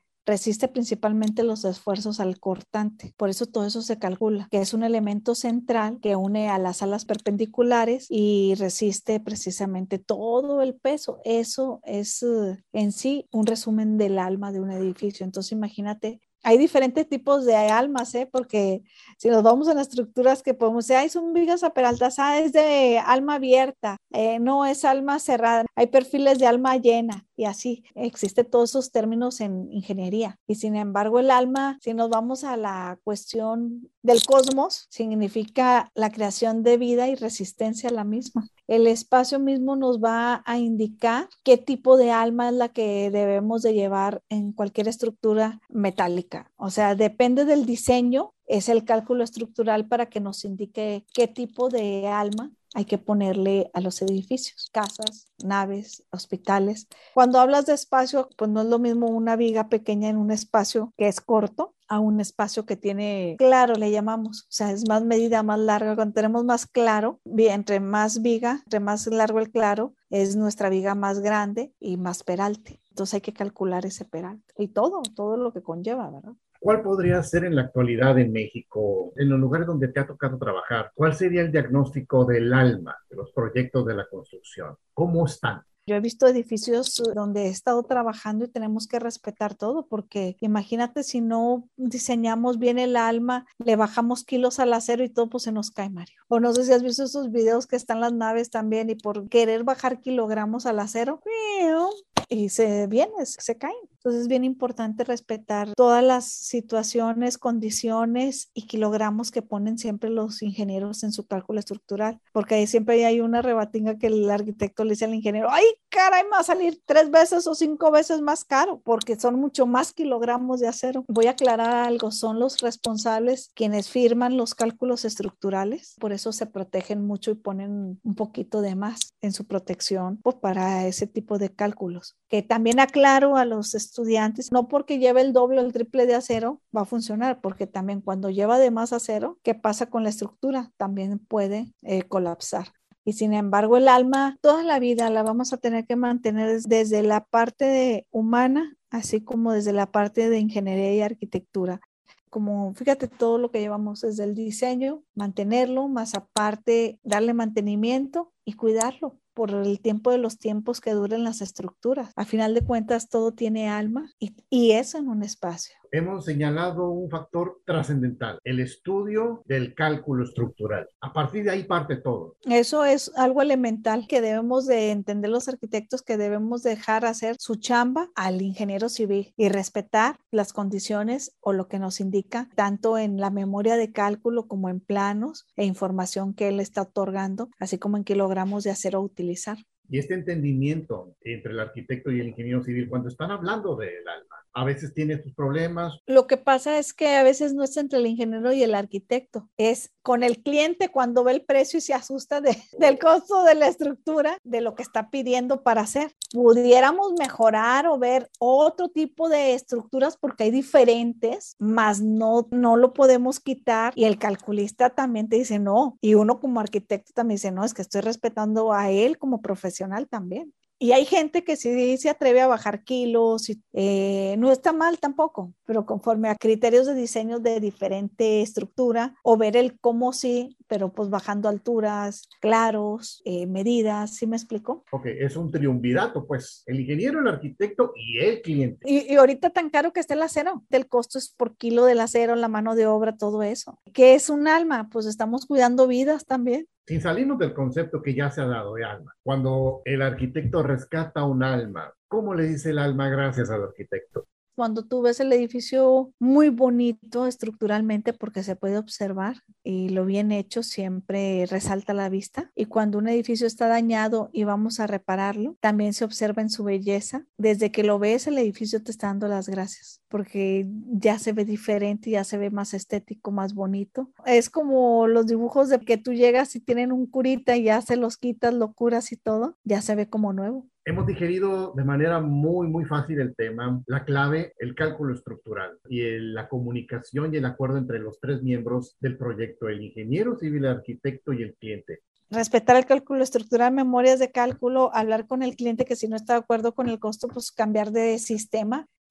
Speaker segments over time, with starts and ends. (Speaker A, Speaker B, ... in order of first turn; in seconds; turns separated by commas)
Speaker A: 0.2-76.4, Speaker B: 76.6-85.6, Speaker A: 85.9-151.8, Speaker A: 152.3-165.8, Speaker B: 165.9-172.3, Speaker A: 172.5-189.6, Speaker B: 189.9-196.0, Speaker A: 196.1-234.8, Speaker B: 234.9-238.8, Speaker A: 238.8-246.7, Speaker B: 246.9-254.2, Speaker A: 254.5-280.7, Speaker B: 280.8-292.0, Speaker A: 292.3-298.9